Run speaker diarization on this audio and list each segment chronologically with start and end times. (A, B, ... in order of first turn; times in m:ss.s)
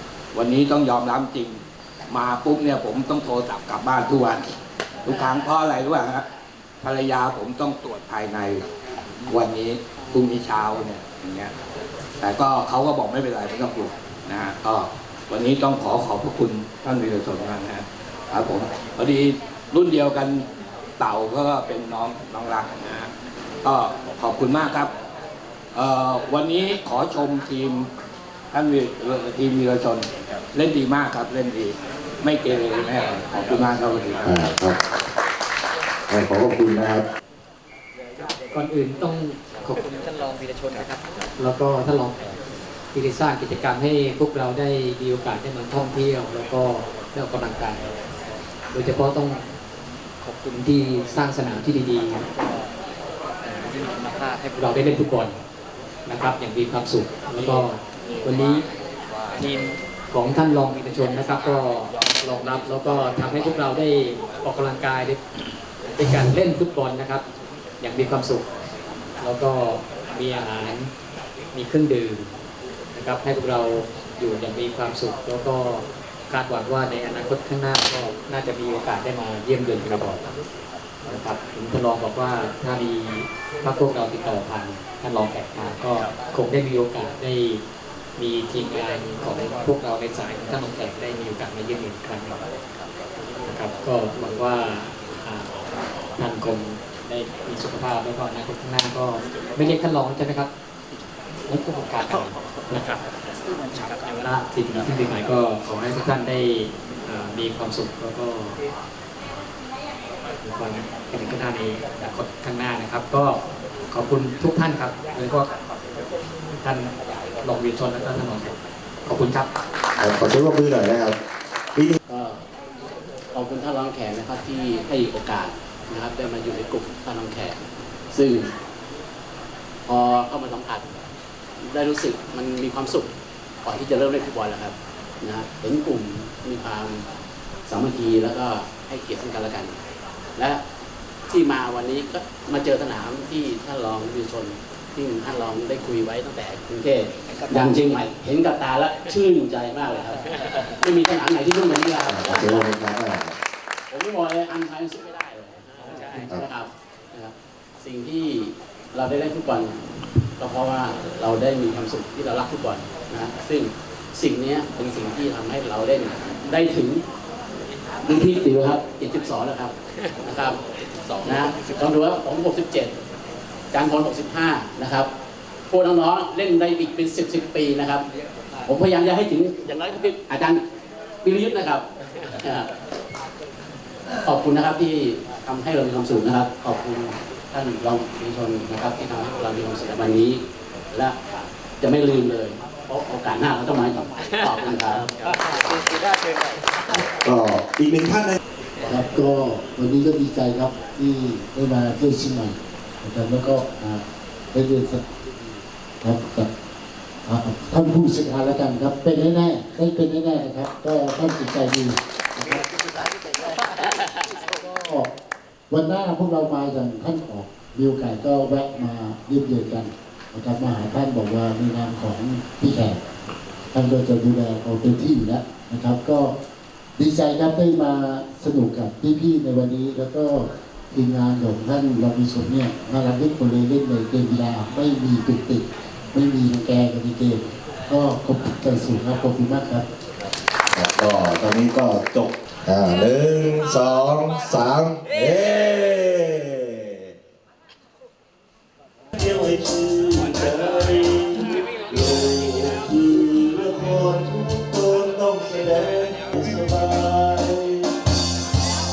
0:00.3-0:04.5 A
0:05.0-0:06.2 A
0:06.8-0:08.7 A
0:09.3-0:11.5 A
0:12.2-0:20.4 A
0:21.0-0:23.1 A
0:23.6-0:24.9 A
0:25.7-0:27.9 A
0:28.5-0:34.4 A
0:34.2-0:34.8 B
0:36.1-0:37.0 B
0:38.4-0:42.3 C
0:42.9-0:47.8 C
0:48.7-0:49.4 C
0:50.2-0:52.3 C
0:53.4-0:55.4 C
0:56.1-0:58.6 C
0:59.4-1:05.2 C
1:05.9-1:07.2 C
1:07.8-1:08.4 C
1:09.2-1:10.9 C
1:11.5-1:12.3 C
1:13.0-1:20.2 C
1:21.1-1:27.6 C
1:28.2-1:32.4 C
1:33.5-1:35.5 C
1:36.2-1:40.5 C
1:41.5-1:43.0 C
1:43.7-1:48.6 C
1:50.4-1:55.5 C
1:56.6-1:59.5 C
2:00.0-2:01.2 B
2:02.1-2:02.4 D
2:03.3-2:07.6 D
2:08.1-2:08.5 D
2:09.9-2:10.9 D
2:11.6-2:13.1 D
2:13.6-2:17.0 D
2:17.7-2:19.8 D
2:21.3-2:32.7 D
2:32.1-2:33.4 B
2:33.9-2:39.8 D
2:35.9-2:36.3 C
2:40.4-2:47.0 D
2:48.0-2:50.6 D
2:51.2-2:52.9 D
2:53.7-2:55.1 D
2:55.7-2:58.1 D
2:58.7-3:00.6 D
3:01.2-3:02.7 D
3:04.2-3:11.2 D
3:11.8-3:15.2 D
3:17.2-3:18.4 B
3:18.9-3:24.0 E
3:24.5-3:25.0 E
3:26.0-3:26.5 E
3:27.3-3:32.7 E
3:34.5-3:35.1 E
3:35.7-3:43.0 E
3:43.7-3:46.3 E
3:47.0-3:59.8 E
4:00.7-4:06.9 B
4:09.2-4:17.9 B